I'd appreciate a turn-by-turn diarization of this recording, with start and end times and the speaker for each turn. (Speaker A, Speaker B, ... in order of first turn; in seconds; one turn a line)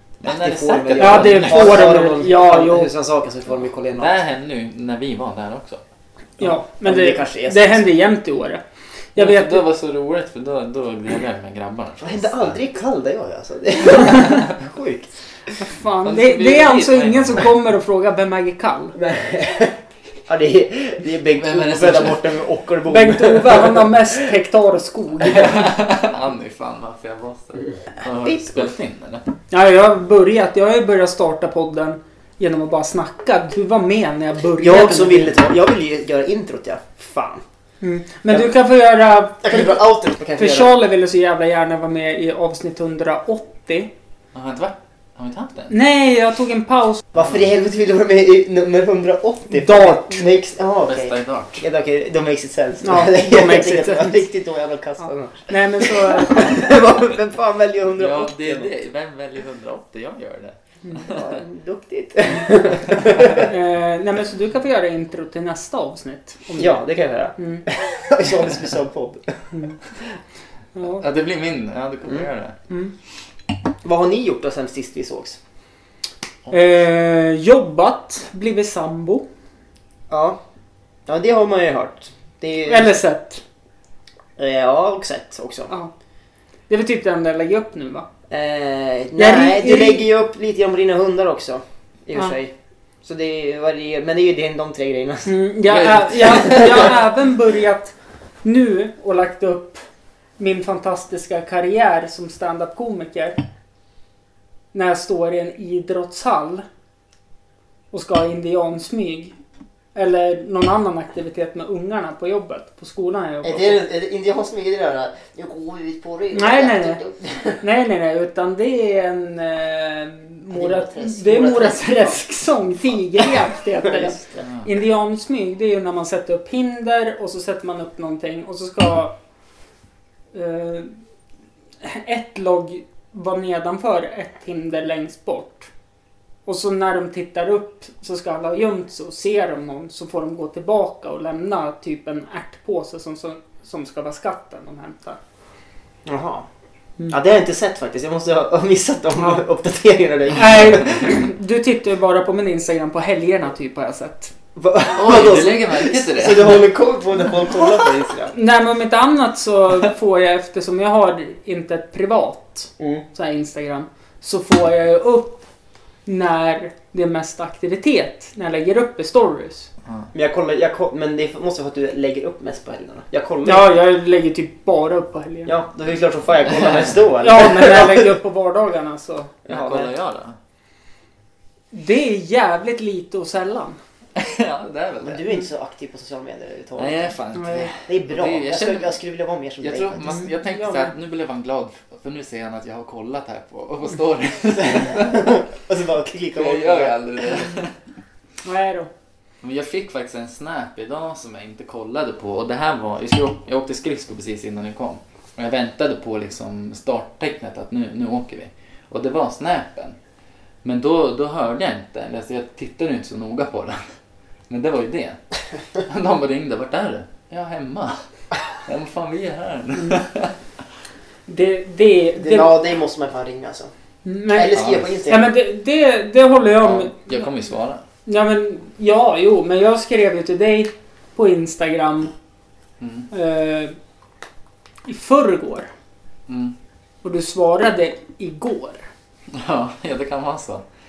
Speaker A: 0.2-2.0
Speaker B: 0.2-4.1
Speaker C: 1.0-2.9
Speaker A: 4.0-5.8
Speaker B: 6.4-7.8
Speaker C: 6.4-8.6
Speaker C: 9.2-9.6
Speaker A: 9.2-12.6
Speaker B: 12.0-15.1
Speaker C: 15.6-18.9
Speaker A: 16.0-17.5
Speaker B: 18.9-23.9
Speaker A: 21.4-22.3
Speaker C: 22.9-25.7
Speaker A: 25.2-29.2
Speaker B: 28.2-28.7
Speaker C: 29.5-35.3
Speaker B: 34.6-37.4
Speaker C: 37.8-43.9
Speaker B: 39.4-40.7
Speaker A: 44.3-45.7
Speaker C: 45.7-47.0
Speaker B: 47.1-58.7
Speaker C: 49.5-50.2
Speaker A: 50.9-51.6
Speaker C: 52.8-54.2
Speaker C: 55.5-56.7
Speaker A: 58.0-61.2
Speaker B: 61.0-63.5
Speaker C: 63.3-66.8
Speaker B: 66.6-69.5
Speaker C: 67.4-67.6
Speaker C: 70.8-71.0
Speaker A: 71.0-72.6
Speaker B: 73.8-75.4
Speaker C: 76.5-79.2
Speaker B: 80.1-80.4
Speaker B: 81.1-83.0
Speaker C: 82.7-83.4
Speaker B: 84.4-85.7
Speaker C: 86.7-88.1
Speaker B: 88.3-92.5
Speaker C: 89.2-90.1
Speaker B: 93.0-95.4
Speaker C: 95.3-99.8
Speaker A: 95.7-96.9
Speaker C: 100.4-103.4
Speaker C: 104.7-106.7
Speaker C: 107.9-109.3
Speaker C: 110.0-113.8
Speaker B: 113.4-117.6
Speaker C: 116.3-117.0
Speaker C: 117.6-129.1
Speaker B: 120.5-122.2
Speaker B: 123.8-124.4
Speaker C: 130.3-130.9
Speaker C: 131.8-135.7
Speaker C: 136.5-145.2
Speaker B: 146.1-146.5
Speaker B: 147.1-151.1
Speaker C: 150.4-154.3
Speaker B: 154.6-158.3
Speaker A: 154.9-156.6
Speaker C: 158.3-165.4
Speaker B: 162.8-163.1
Speaker C: 166.1-169.7
Speaker B: 170.1-173.7
Speaker C: 173.4-175.5
Speaker B: 175.5-178.1
Speaker C: 177.2-179.4
Speaker B: 179.4-179.9
Speaker A: 179.5-180.4
Speaker C: 181.7-183.8
Speaker A: 184.2-185.2
Speaker B: 185.0-187.1
Speaker A: 186.8-188.9
Speaker C: 187.3-187.7
Speaker B: 187.8-190.2
Speaker A: 189.6-195.3
Speaker C: 190.0-190.9
Speaker B: 194.7-197.4
Speaker A: 196.3-197.7
Speaker C: 198.4-198.9
Speaker A: 199.4-210.0
Speaker A: 210.6-213.8
Speaker A: 214.5-215.2
Speaker A: 215.8-218.0
Speaker A: 218.6-220.3
Speaker C: 221.3-222.6
Speaker B: 222.2-223.7
Speaker C: 224.1-224.6
Speaker B: 224.3-225.3
Speaker A: 224.5-224.9
Speaker C: 225.1-227.0
Speaker A: 226.6-227.8
Speaker C: 228.1-232.1
Speaker A: 232.8-233.1
Speaker C: 233.1-233.8
Speaker C: 234.9-235.7
Speaker A: 236.3-236.6
Speaker C: 237.0-238.9
Speaker A: 239.3-240.7